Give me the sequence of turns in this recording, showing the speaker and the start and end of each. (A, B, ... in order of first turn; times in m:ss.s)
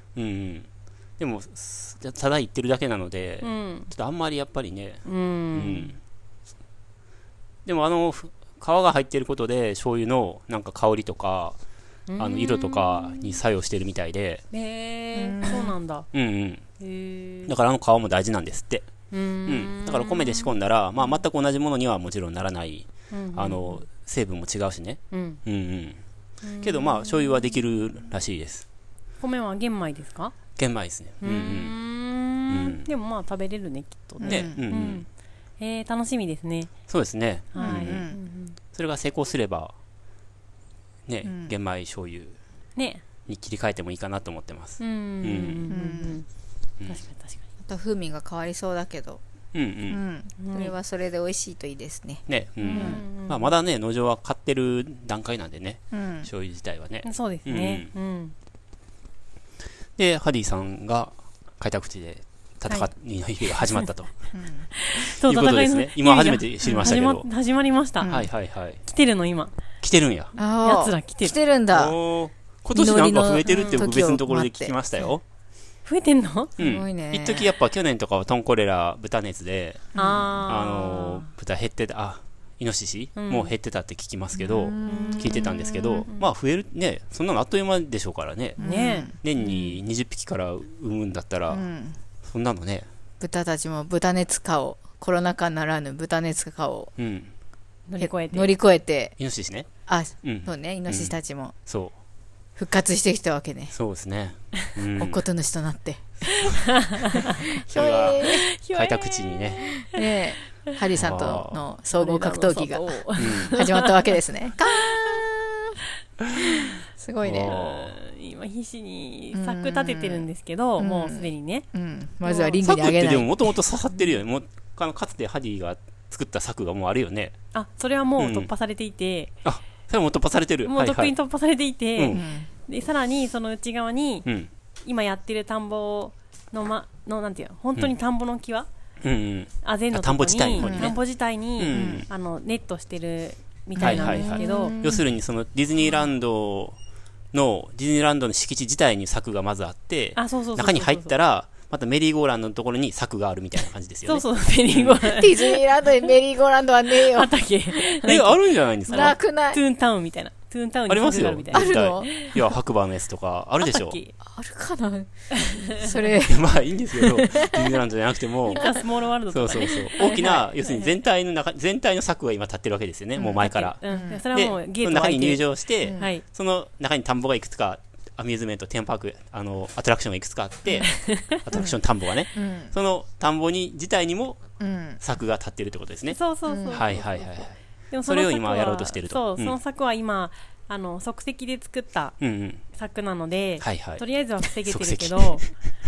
0:00.2-0:06.0 A
0:03.4-0:03.9 B
0:05.0-0:06.0 B
0:07.6-0:11.6 A
0:12.1-0:13.4 B
0:12.2-0:14.4 A
0:14.5-0:16.1 B
0:15.2-0:15.7 C
0:16.1-0:16.6 A
0:16.8-0:17.5 B
0:17.5-0:18.9 A
0:19.1-0:21.2 B
0:19.5-0:26.0 A
0:23.1-0:23.8 B
0:25.1-0:25.4 B
0:26.4-0:27.3 B
0:26.6-0:28.7 A
0:29.2-0:30.4 B
0:30.6-0:31.8 A
0:31.2-0:35.1 B
0:32.5-0:32.9 A
0:34.2-0:34.6 C
0:34.2-0:35.0 A
0:35.6-0:36.7 B
0:36.9-0:38.1 A
0:37.5-0:38.6 B
0:37.6-0:38.2 C
0:38.7-0:39.7 A
0:41.1-0:42.4 A
0:41.2-0:41.5 C
0:42.8-0:43.0 B
0:43.3-0:45.7 A
0:44.8-0:46.3 B
0:45.7-0:46.2 C
0:46.9-0:47.4 B
0:47.6-0:49.2 C
0:49.5-0:50.0 A
0:49.9-0:53.0 C
0:50.4-0:50.7 B
0:52.3-0:57.9 A
0:52.6-0:53.5 B
0:55.9-0:56.3 C
0:57.0-0:58.3 B
1:00.0-1:04.1 A
1:03.5-1:03.8 B
1:04.3-1:04.7 C
1:04.8-1:08.2 B
1:05.0-1:07.3 A
1:08.0-1:08.3 C
1:08.0-1:08.8 A
1:08.8-1:09.6 B
1:09.8-1:10.3 A
1:10.4-1:12.0 C
1:10.6-1:11.4 B
1:11.7-1:15.2 A
1:12.8-1:15.1 C
1:13.4-1:13.8 B
1:15.8-1:16.6 B
1:16.6-1:31.6 A
1:16.6-1:17.5 C
1:20.0-1:20.3 C
1:20.0-1:21.3 B
1:23.2-1:23.5 B
1:24.4-1:25.6 C
1:24.8-1:26.3 B
1:28.6-1:29.1 C
1:28.6-1:29.8 B
1:31.5-1:32.0 C
1:32.2-1:32.9 A
1:33.2-1:36.9 C
1:37.0-1:37.3 A
1:37.9-1:38.5 B
1:38.0-1:39.2 C
1:39.2-1:39.7 A
1:39.9-1:41.6 C
1:40.2-1:41.2 A
1:41.7-1:41.9 A
1:42.6-1:43.8 C
1:43.7-1:45.2 A
1:45.0-1:46.6 C
1:46.3-1:47.4 B
1:47.1-1:48.5 C
1:47.7-1:49.6 A
1:48.2-1:50.0 B
1:49.8-1:55.8 C
1:51.0-1:51.6 A
1:51.9-1:54.1 B
1:53.2-1:53.6 A
1:54.7-1:55.2 B
1:56.4-1:57.6 C
1:57.2-1:57.9 A
1:57.4-2:01.7 B
1:59.3-2:03.6 C
2:02.2-2:02.6 B
2:02.6-2:07.4 A
2:07.5-2:09.3 B
2:08.2-2:08.5 A
2:09.4-2:11.1 A
2:10.7-2:14.3 B
2:12.0-2:12.2 A
2:12.1-2:12.5 C
2:14.8-2:18.7 B
2:19.0-2:21.0 A
2:19.6-2:24.8 B
2:20.6-2:21.0 C
2:21.6-2:22.1 A
2:21.7-2:22.0 C
2:23.8-2:25.0 C
2:23.8-2:26.8 A
2:27.3-2:35.1 A
2:30.2-2:31.1 B
2:34.1-2:35.6 B
2:35.1-2:37.4 C
2:37.0-2:42.4 B
2:38.0-2:39.2 A
2:38.9-2:39.6 C
2:40.9-2:44.0 A
2:41.5-2:42.4 C
2:43.6-2:44.2 B
2:44.2-2:47.8 C
2:45.3-2:46.0 B
2:46.2-2:53.8 A
2:48.5-2:50.9 B
2:50.0-2:50.4 C
2:53.4-2:56.2 B
2:53.9-2:54.2 C
2:54.3-3:04.4 A
3:00.8-3:01.4 B
3:02.3-3:02.7 C
3:04.6-3:05.0 C
3:05.0-3:06.2 A
3:06.1-3:07.3 B
3:06.5-3:06.9 C
3:06.7-3:09.6 A
3:07.9-3:12.2 B
3:12.2-3:12.6 A
3:12.7-3:15.5 B
3:13.6-3:14.0 A
3:14.6-3:15.5 A